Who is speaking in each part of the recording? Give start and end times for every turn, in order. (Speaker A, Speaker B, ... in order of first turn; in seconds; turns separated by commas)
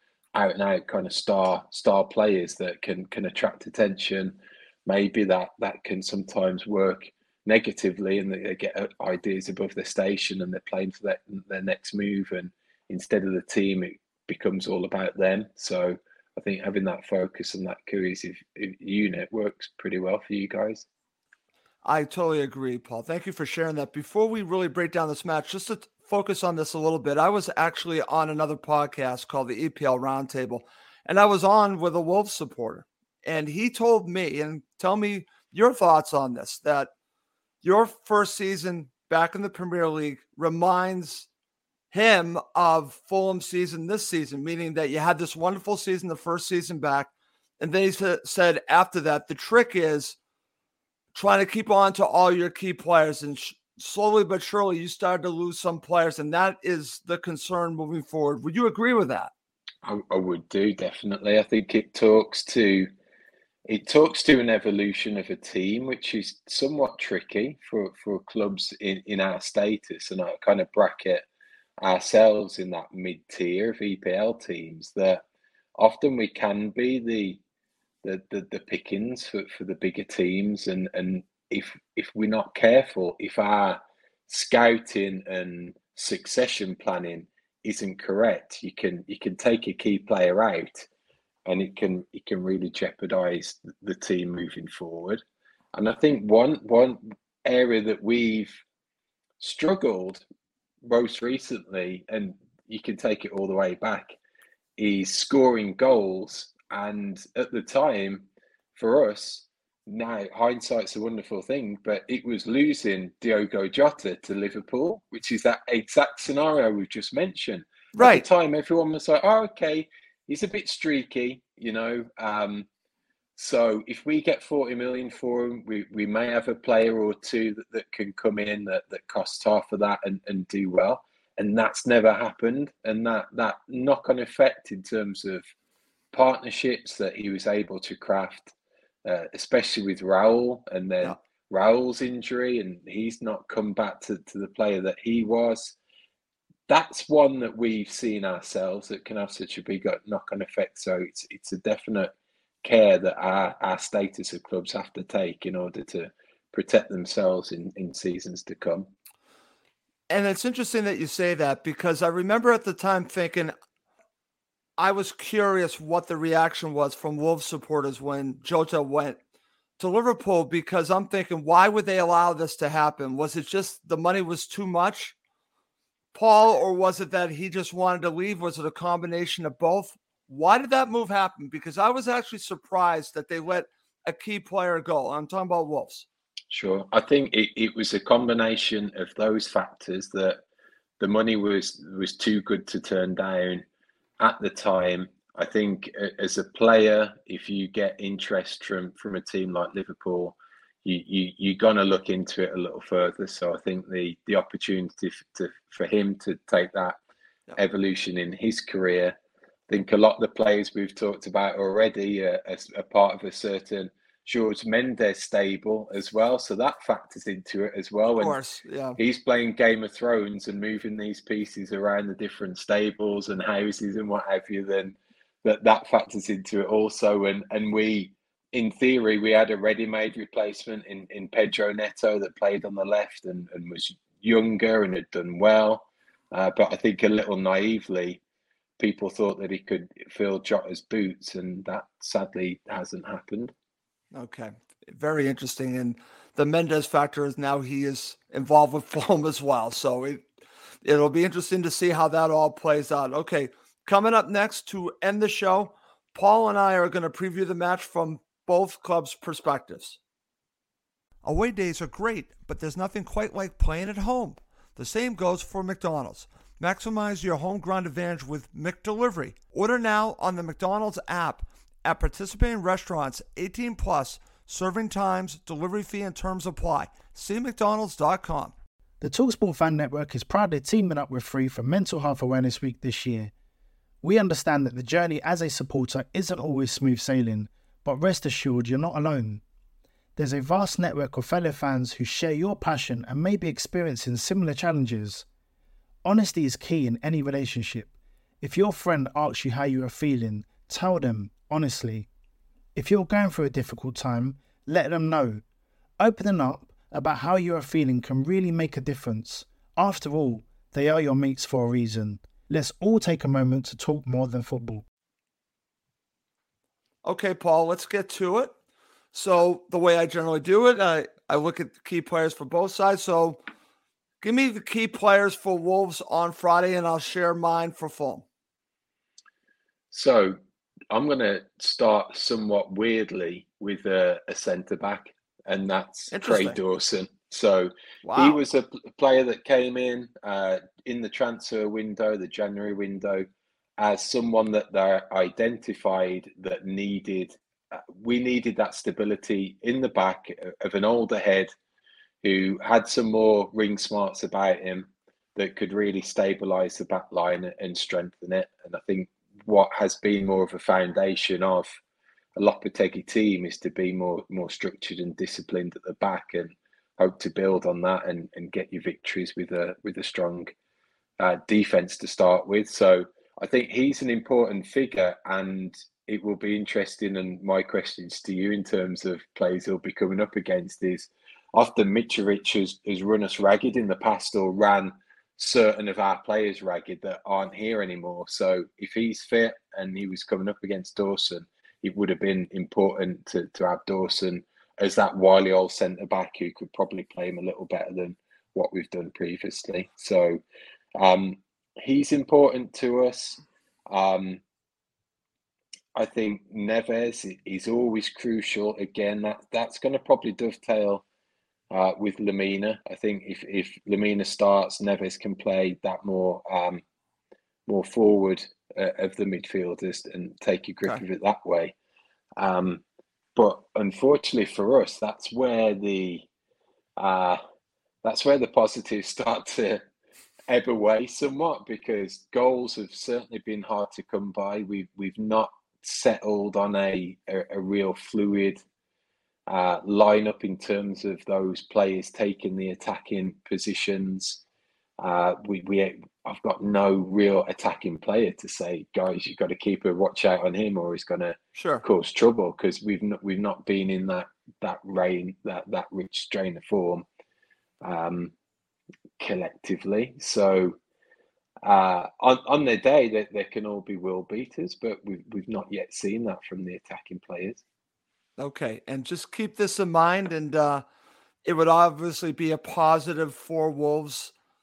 Speaker A: 0.3-20.9, Speaker B: 21.8-36.9, Speaker B: 37.6-41.3, Speaker B: 41.9-50.1, Speaker B: 51.1-59.3, Speaker A: 59.8-62.9, Speaker A: 63.7-71.2, Speaker A: 71.8-75.2, Speaker A: 75.8-77.4, Speaker A: 78.0-90.9, Speaker A: 91.5-95.2, Speaker A: 95.7-98.6, Speaker A: 99.4-100.2, Speaker A: 100.8-104.1, Speaker A: 104.8-122.7, Speaker B: 118.0-118.2, Speaker A: 123.4-135.4, Speaker A: 136.1-138.5, Speaker A: 139.0-145.8, Speaker A: 146.7-152.1, Speaker A: 152.6-158.9, Speaker B: 160.1-163.5, Speaker B: 164.8-169.2, Speaker B: 169.8-175.1, Speaker B: 176.1-186.1, Speaker A: 186.5-190.4, Speaker A: 191.0-193.6, Speaker A: 194.2-207.0, Speaker A: 207.6-209.2, Speaker A: 209.7-218.4, Speaker B: 218.1-219.0, Speaker A: 219.0-238.2, Speaker A: 238.8-243.5, Speaker B: 244.1-250.2, Speaker B: 250.8-260.0, Speaker B: 261.2-278.5, Speaker C: 279.0-283.3, Speaker C: 284.0-289.4, Speaker C: 290.1-295.2, Speaker C: 296.0-297.9, Speaker C: 298.4-302.1, Speaker C: 302.7-305.4, Speaker C: 306.0-314.8, Speaker B: 317.0-318.5, Speaker B: 319.1-323.4, Speaker B: 324.2-328.2, Speaker A: 329.9-330.4, Speaker A: 330.9-343.3, Speaker B: 336.1-336.6, Speaker B: 338.0-338.4, Speaker A: 343.8-351.5, Speaker A: 352.2-361.8, Speaker A: 362.4-370.5, Speaker A: 371.2-400.4, Speaker A: 401.0-404.4, Speaker A: 405.9-411.0, Speaker A: 411.7-416.8, Speaker A: 417.7-421.7, Speaker A: 422.4-422.8, Speaker A: 423.4-426.2, Speaker A: 427.0-427.4, Speaker A: 428.0-429.8, Speaker A: 430.5-438.6, Speaker A: 439.5-444.4, Speaker A: 445.0-457.0, Speaker B: 451.6-451.8, Speaker A: 457.8-458.3, Speaker A: 459.2-460.8, Speaker A: 461.6-467.6, Speaker B: 468.4-470.8, Speaker B: 471.4-474.3